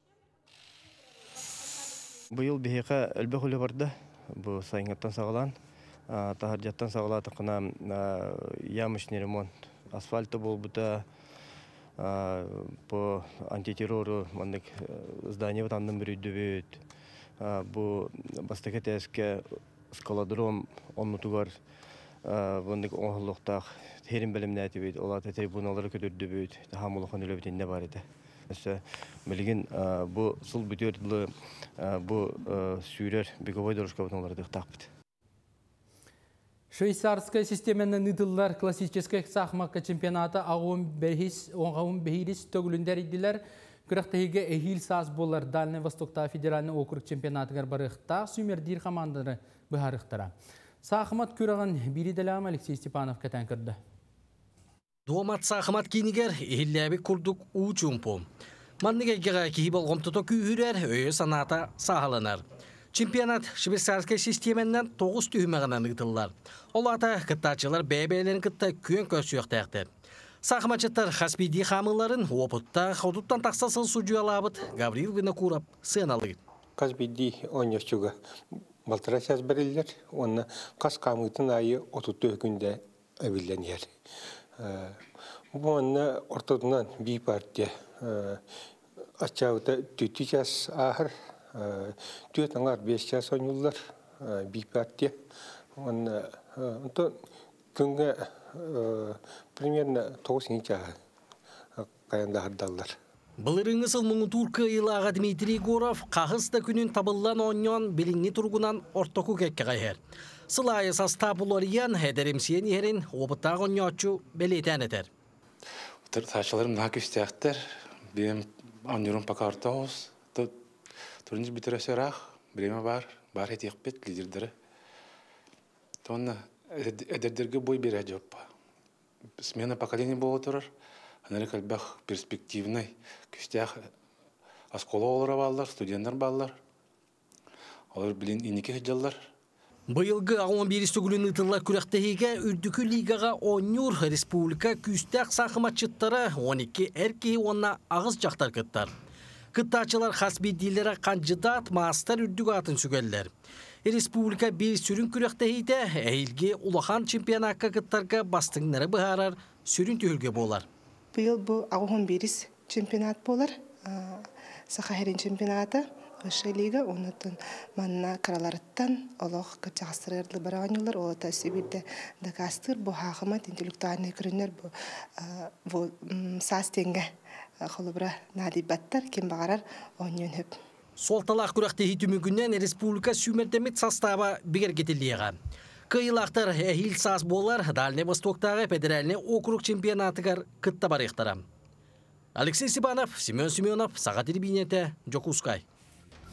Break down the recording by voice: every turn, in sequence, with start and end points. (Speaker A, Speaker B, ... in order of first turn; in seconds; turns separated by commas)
Speaker A: 2.3-5.6, Speaker A: 6.1-11.1, Speaker A: 12.0-16.8, Speaker A: 17.4-21.6, Speaker A: 22.2-34.9, Speaker B: 36.7-53.8, Speaker C: 55.1-58.3, Speaker C: 58.8-62.4, Speaker C: 62.9-69.9, Speaker C: 70.4-76.4, Speaker D: 76.8-78.2, Speaker D: 78.9-83.9, Speaker D: 84.6-85.0, Speaker D: 85.5-88.4, Speaker D: 89.2-95.2, Speaker D: 95.8-97.2, Speaker D: 97.8-101.0, Speaker D: 101.8-103.0, Speaker C: 103.4-110.0, Speaker C: 110.5-115.1, Speaker E: 116.0-120.6, Speaker E: 121.2-124.5, Speaker E: 126.0-128.5, Speaker E: 129.4-130.7, Speaker E: 131.3-133.9, Speaker E: 134.7-136.6, Speaker E: 137.9-139.3, Speaker C: 139.9-148.9, Speaker C: 149.5-153.3, Speaker C: 153.8-160.7, Speaker F: 161.1-180.6, Speaker C: 181.0-185.4, Speaker C: 185.9-191.4, Speaker C: 192.4-195.6